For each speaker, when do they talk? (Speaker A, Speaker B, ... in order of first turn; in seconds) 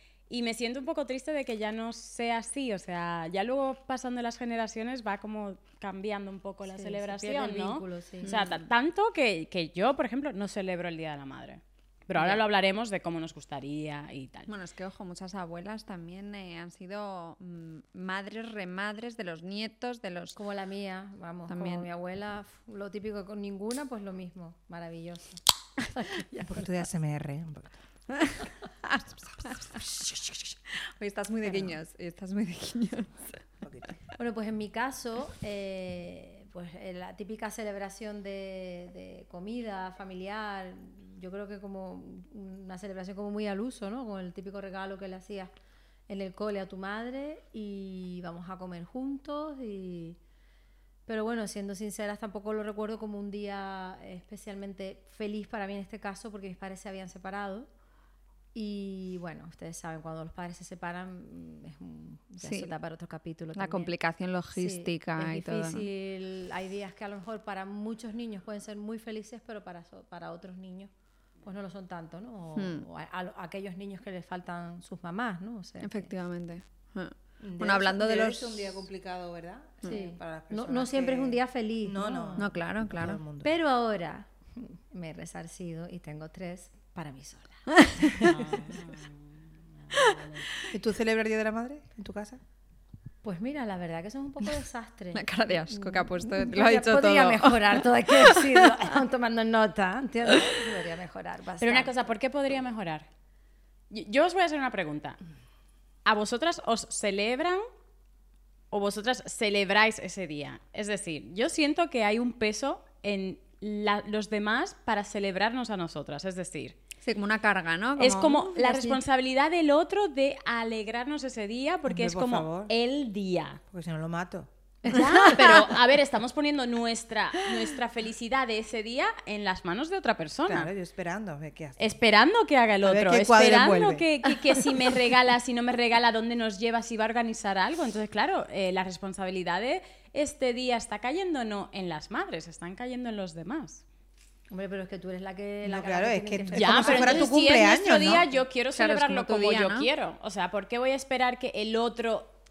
Speaker A: 0.3-14.5, 88.2-90.4, 101.6-103.1, 103.9-105.2, 106.0-107.6, 108.7-116.8, 118.0-123.6, 124.8-130.7, 131.8-143.8, 146.5-152.3
Speaker B: 6.7-8.6, 20.4-25.4, 25.9-26.5, 31.4-31.8, 34.2-45.5, 46.1-50.2, 51.1-57.7, 58.5-63.9, 64.5-70.9, 71.4-76.1, 79.8-82.5, 83.4-88.3, 93.2-101.9, 124.8-125.4, 144.5-147.3
Speaker C: 14.5-20.4, 21.5-21.9, 28.2-33.4, 62.4-62.7, 63.5-65.8, 72.5-72.8, 75.8-78.7, 82.4-83.2, 87.8-88.2, 89.9-90.2, 95.1-98.5, 117.0-119.0, 148.7-149.9
Speaker D: 26.4-27.7, 33.6-33.9, 77.4-83.5, 90.7-92.4, 121.9-122.7, 123.7-124.5, 130.4-131.9, 132.8-134.1, 145.6-148.3